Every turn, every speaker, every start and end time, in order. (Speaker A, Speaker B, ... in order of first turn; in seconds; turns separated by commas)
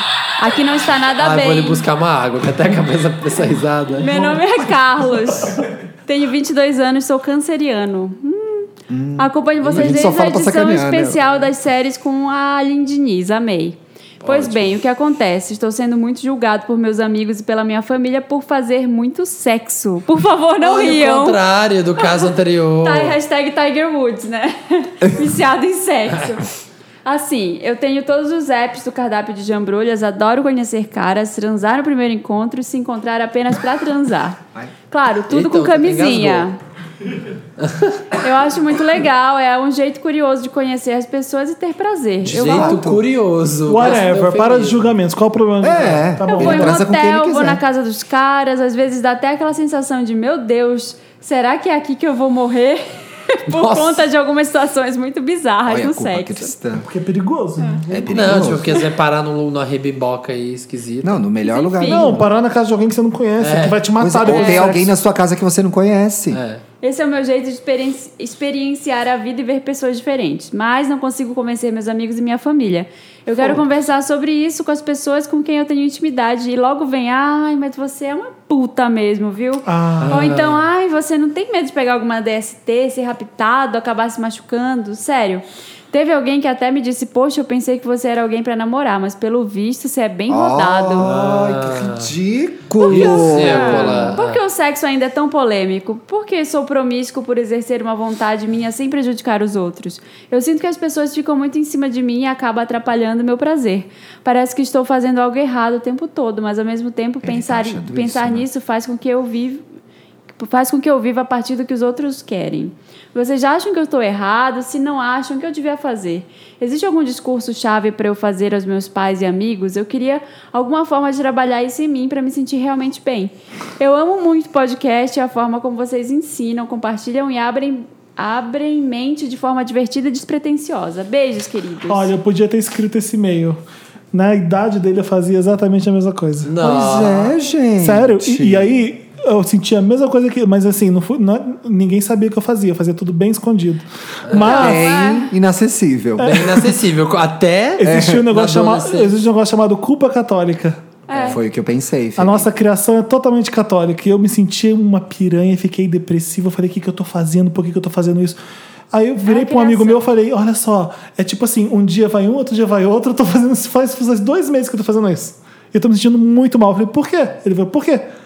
Speaker A: 0.4-1.8, Speaker B: 1.2-4.3, Speaker A: 4.0-21.4, Speaker C: 8.9-11.2, Speaker B: 9.6-10.1, Speaker B: 14.2-14.7, Speaker B: 20.6-23.1, Speaker A: 22.0-26.4, Speaker A: 27.0-34.4, Speaker A: 34.9-36.6, Speaker B: 35.3-36.5, Speaker B: 37.6-38.0, Speaker A: 38.2-42.8, Speaker B: 42.2-45.0, Speaker C: 42.3-43.0, Speaker D: 43.7-46.8, Speaker C: 45.6-47.6, Speaker B: 45.7-46.0, Speaker A: 46.3-52.8, Speaker A: 53.3-56.5, Speaker B: 53.5-54.0, Speaker C: 55.6-56.9, Speaker D: 56.8-58.4, Speaker C: 57.9-58.9, Speaker B: 58.1-61.2, Speaker C: 61.0-62.3, Speaker A: 61.4-62.2, Speaker D: 61.8-64.9, Speaker B: 63.4-63.9, Speaker C: 64.0-66.4, Speaker A: 64.2-64.6, Speaker B: 66.3-66.6, Speaker A: 66.8-91.1, Speaker D: 79.7-80.2, Speaker B: 80.0-80.6, Speaker C: 90.3-94.2, Speaker B: 91.0-92.1, Speaker A: 92.8-109.6, Speaker B: 92.9-94.4, Speaker C: 107.2-108.5, Speaker A: 110.3-132.1, Speaker D: 131.9-133.6, Speaker D: 134.1-136.5, Speaker B: 136.4-137.3, Speaker C: 136.6-138.8, Speaker D: 137.8-144.8, Speaker B: 144.3-144.6, Speaker C: 144.4-146.5, Speaker A: 144.4-145.3, Speaker D: 146.2-146.7, Speaker B: 146.2-149.1, Speaker D: 147.8-150.8, Speaker C: 147.8-148.3, Speaker A: 151.1-151.4, Speaker C: 151.2-152.5, Speaker D: 152.2-158.4, Speaker D: 158.9-168.1, Speaker A: 159.2-160.0